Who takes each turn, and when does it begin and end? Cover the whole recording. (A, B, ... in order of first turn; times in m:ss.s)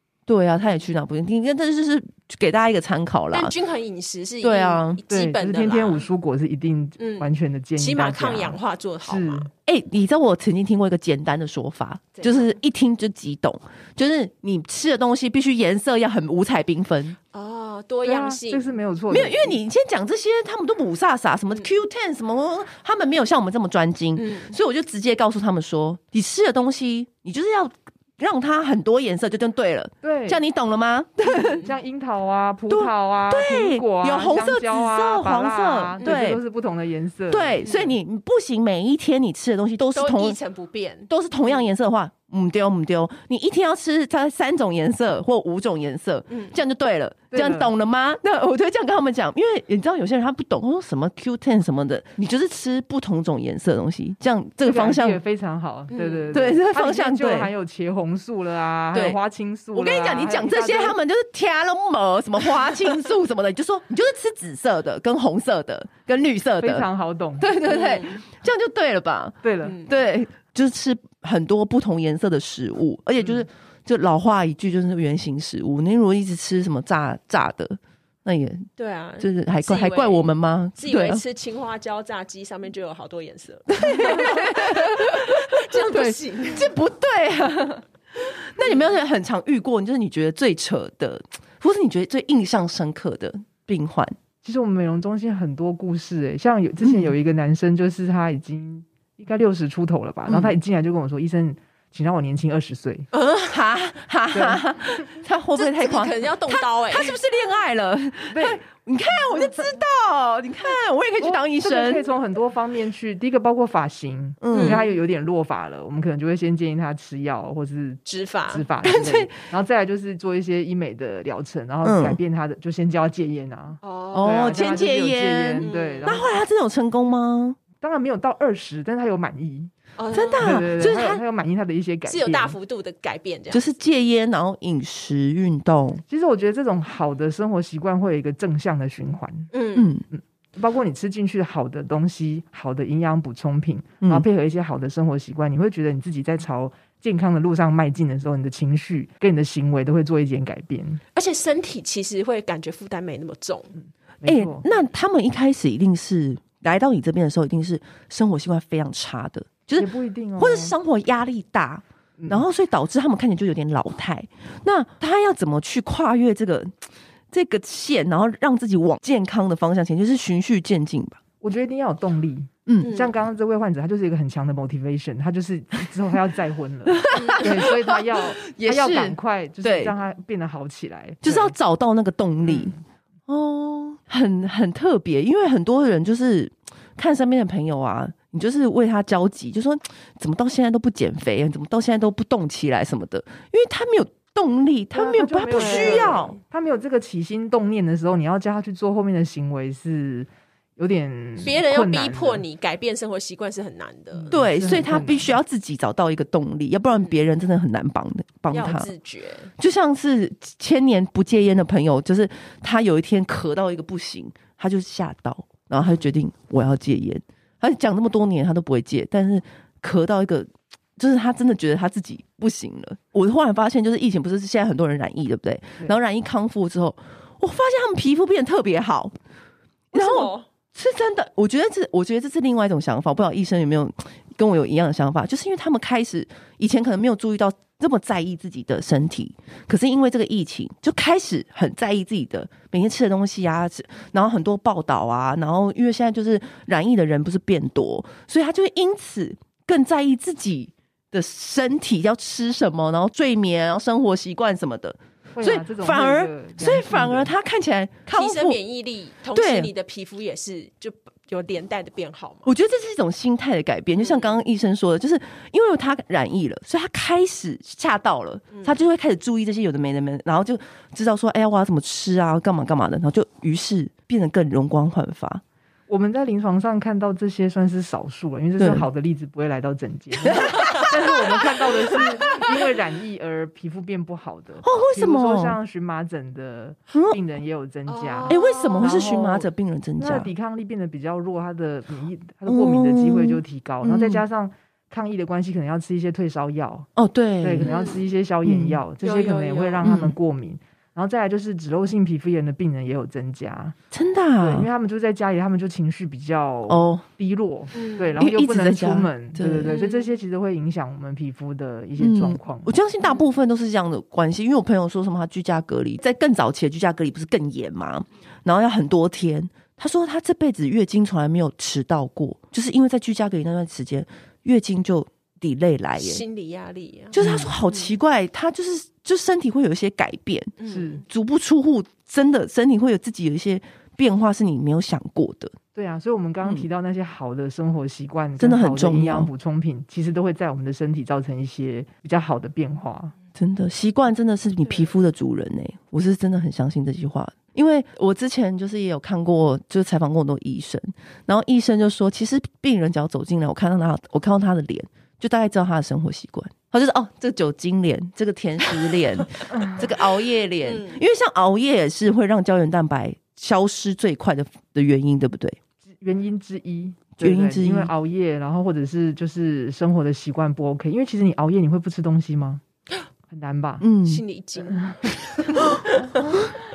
0:00.3-0:03.5 A
0:03.3-0:06.0 B
0:04.4-0:05.0 A
0:05.1-0:09.5 C
0:07.0-0:09.5 B
0:09.6-0:17.2 A
0:12.2-0:12.5 B
0:17.3-0:18.7 B
0:18.0-0:19.6 C
0:19.1-0:31.6 A
0:24.2-0:24.5 B
0:30.0-0:30.4 C
0:31.2-0:31.7 B
0:31.5-0:37.7 C
0:32.7-0:36.4 A
0:37.3-0:40.4 A
0:37.6-0:37.9 B
0:39.9-0:41.6 B
0:41.1-0:55.2 A
0:46.3-0:46.6 B
0:47.3-0:47.7 C
0:54.6-1:01.0 C
0:55.9-0:56.3 B
0:56.3-0:57.5 A
0:58.9-0:59.2 A
0:59.7-1:06.9 A
1:06.6-1:07.5 C
1:07.4-1:21.2 A
1:07.6-1:08.2 B
1:09.4-1:09.8 C
1:09.6-1:09.9 B
1:18.8-1:26.7 B
1:23.7-1:34.2 A
1:28.6-1:28.8 B
1:34.4-1:43.1 C
1:36.8-1:37.1 A
1:40.3-1:40.6 A
1:43.1-1:43.5 B
1:43.4-1:52.1 A
1:44.3-1:44.6 C
1:45.6-1:47.2 B
1:48.3-1:48.6 C
1:51.2-2:06.3 C
1:54.4-1:54.8 A
1:54.5-1:54.9 B
1:58.0-1:58.6 B
1:58.8-1:59.3 A
2:01.8-2:02.2 A
2:03.8-2:04.7 B
2:04.1-2:07.6 A
2:05.6-2:06.2 B
2:07.8-2:09.7 C
2:10.0-2:10.6 B
2:10.1-2:11.2 A
2:10.4-2:12.6 C
2:12.0-2:13.6 B
2:13.5-2:16.0 A
2:16.1-2:19.5 C
2:19.5-2:19.9 B
2:19.8-2:20.0 A
2:20.1-2:31.0 C
2:31.1-2:33.7 B
2:34.2-2:34.6 C
2:34.2-2:46.8 A
2:39.8-2:40.7 C
2:42.2-2:42.4 C
2:47.3-2:51.2 A
2:51.4-3:01.5 C
2:52.6-2:52.9 A
2:52.8-2:53.1 B
2:56.9-2:59.9 A
2:57.1-2:57.6 B
3:01.2-3:02.7 A
3:02.4-3:02.8 C
3:03.3-3:16.4 A
3:14.9-3:22.4 C
3:15.5-3:16.4 B
3:21.4-3:24.3 B
3:24.2-3:25.3 C
3:24.3-3:28.9 A
3:28.5-3:29.5 B
3:29.6-3:49.1 A
3:49.9-3:50.5 B
3:49.9-4:18.6 A
4:15.3-4:17.3 C
4:18.1-4:22.5 B
4:19.3-4:19.7 A
4:22.4-4:35.4 A
4:24.0-4:24.4 B
4:35.9-4:56.9 C
4:38.6-4:38.9 A
4:40.2-4:41.2 A
4:40.4-4:40.9 B
4:41.9-4:42.5 A
4:44.6-4:45.6 A
4:46.9-4:47.2 A
4:47.9-4:49.0 B
4:48.3-4:50.3 A
4:52.4-4:54.2 A
4:57.0-4:57.7 A
4:57.4-5:03.8 C
4:57.6-4:58.0 B
4:58.4-4:58.8 A
4:59.0-4:59.9 B
4:59.8-5:00.1 A
5:03.9-5:04.7 A
5:04.4-5:12.7 C
5:06.7-5:07.0 A
5:07.7-5:08.2 B
5:08.2-5:09.8 A
5:09.6-5:10.1 B
5:12.0-5:26.2 A
5:26.0-5:28.0 B
5:27.1-5:35.5 A
5:27.2-5:27.6 C
5:30.6-5:31.0 B
5:30.6-5:31.0 C
5:35.7-5:43.1 C
5:38.4-5:39.3 A
5:43.3-6:05.6 A
5:59.5-5:59.8 C
6:00.6-6:01.0 B
6:06.0-6:12.6 C
6:07.2-6:07.9 A
6:13.3-6:13.8 C
6:13.8-6:14.2 A
6:14.0-6:16.4 B
6:14.7-6:15.1 C